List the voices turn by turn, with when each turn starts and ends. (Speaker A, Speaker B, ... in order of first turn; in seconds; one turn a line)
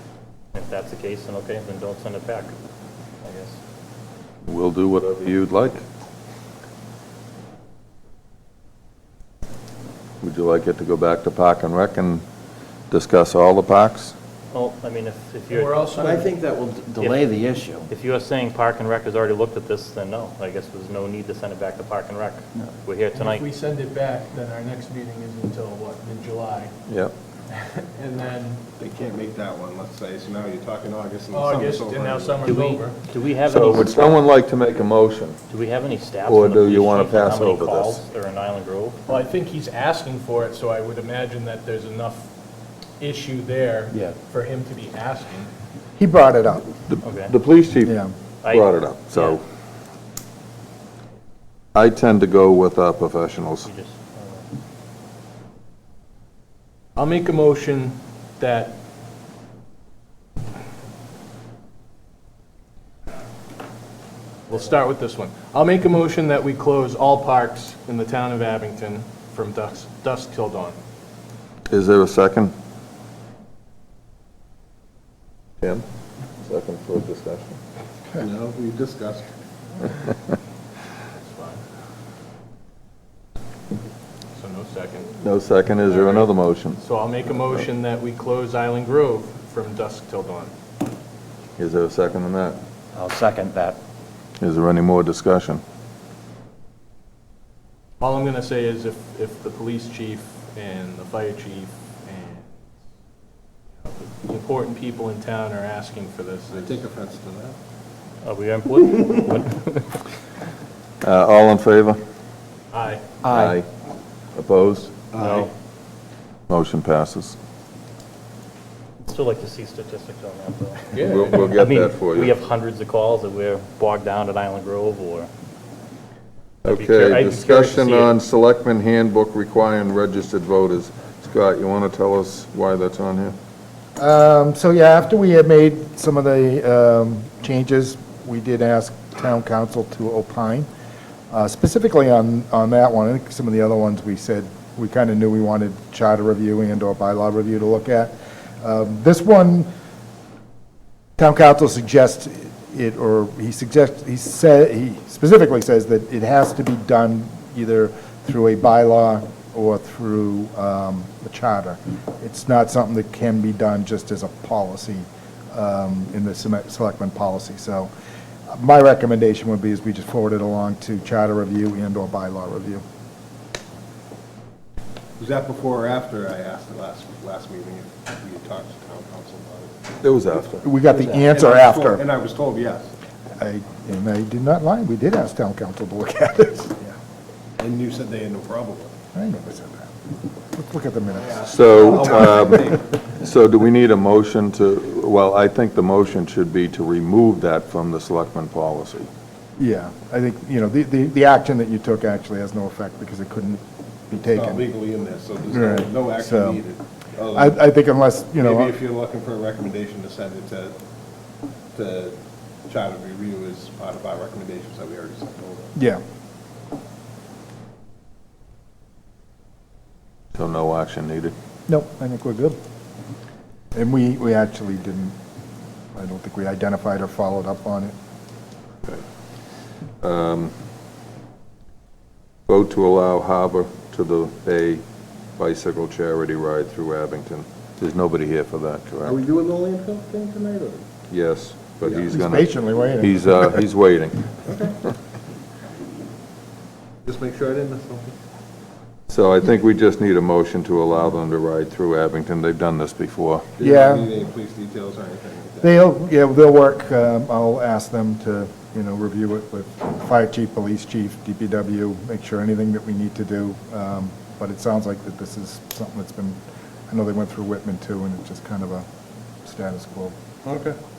Speaker A: 0.5-2.5
Speaker A: 3.2-3.6
Speaker B: 4.5-5.8
Speaker B: 10.2-12.2
Speaker B: 12.9-14.1
Speaker A: 14.5-15.7
Speaker C: 15.5-16.3
Speaker D: 16.0-17.8
Speaker A: 17.0-17.3
Speaker A: 17.9-23.5
Speaker C: 23.1-26.8
Speaker B: 26.9-27.1
Speaker C: 27.5-28.6
Speaker E: 28.8-32.4
Speaker C: 31.3-33.0
Speaker A: 32.4-34.2
Speaker B: 33.5-35.4
Speaker A: 35.5-39.0
Speaker B: 36.3-38.0
Speaker C: 39.1-42.3
Speaker C: 43.0-45.5
Speaker F: 46.0-46.6
Speaker B: 46.9-49.4
Speaker A: 47.0-47.3
Speaker F: 47.8-48.1
Speaker A: 48.4-49.4
Speaker B: 51.8-53.7
Speaker A: 53.6-54.5
Speaker C: 57.0-58.8
Speaker C: 64.5-70.8
Speaker B: 71.7-72.5
Speaker B: 76.4-77.6
Speaker E: 78.2-79.3
Speaker C: 81.2-81.6
Speaker C: 84.3-85.1
Speaker B: 85.2-86.8
Speaker C: 85.8-90.5
Speaker B: 91.6-92.6
Speaker D: 93.0-93.8
Speaker B: 94.4-95.6
Speaker C: 98.0-102.7
Speaker C: 103.8-106.8
Speaker E: 106.5-107.6
Speaker A: 108.2-110.0
Speaker B: 111.0-112.0
Speaker C: 112.7-113.1
Speaker B: 113.3-113.7
Speaker B: 114.3-115.0
Speaker E: 115.1-115.5
Speaker A: 115.2-115.5
Speaker B: 116.5-117.4
Speaker A: 119.0-125.3
Speaker C: 120.9-121.6
Speaker B: 121.0-122.3
Speaker B: 126.6-133.3
Speaker A: 126.7-128.1
Speaker F: 134.0-140.7
Speaker F: 141.3-149.7
Speaker F: 151.2-167.9
Speaker F: 168.5-172.8
Speaker E: 175.2-179.8
Speaker B: 180.0-180.7
Speaker F: 180.6-182.1
Speaker E: 180.9-182.9
Speaker F: 183.4-186.8
Speaker E: 187.6-188.9
Speaker F: 189.1-190.0
Speaker F: 190.5-192.8
Speaker E: 191.2-192.8
Speaker B: 191.4-199.1
Speaker F: 199.6-204.7
Speaker E: 204.2-207.6
Speaker F: 205.5-206.6
Speaker F: 207.3-208.7
Speaker E: 208.4-210.8
Speaker E: 211.7-212.2
Speaker E: 212.7-215.7
Speaker F: 215.8-216.0
Speaker B: 220.3-221.3
Speaker F: 221.7-222.6
Speaker F: 223.7-225.2
Speaker F: 225.9-227.9
Speaker B: 230.0-230.5
Speaker B: 232.5-234.8
Speaker B: 235.4-239.2
Speaker E: 239.1-240.8
Speaker B: 241.1-244.3
Speaker E: 241.8-242.1
Speaker F: 242.1-243.6
Speaker E: 244.5-244.8
Speaker E: 247.1-248.2
Speaker B: 249.1-253.5
Speaker E: 253.6-255.7
Speaker F: 253.6-254.1
Speaker F: 255.6-266.4
Speaker F: 266.9-268.9
Speaker F: 269.4-270.1
Speaker E: 270.4-270.8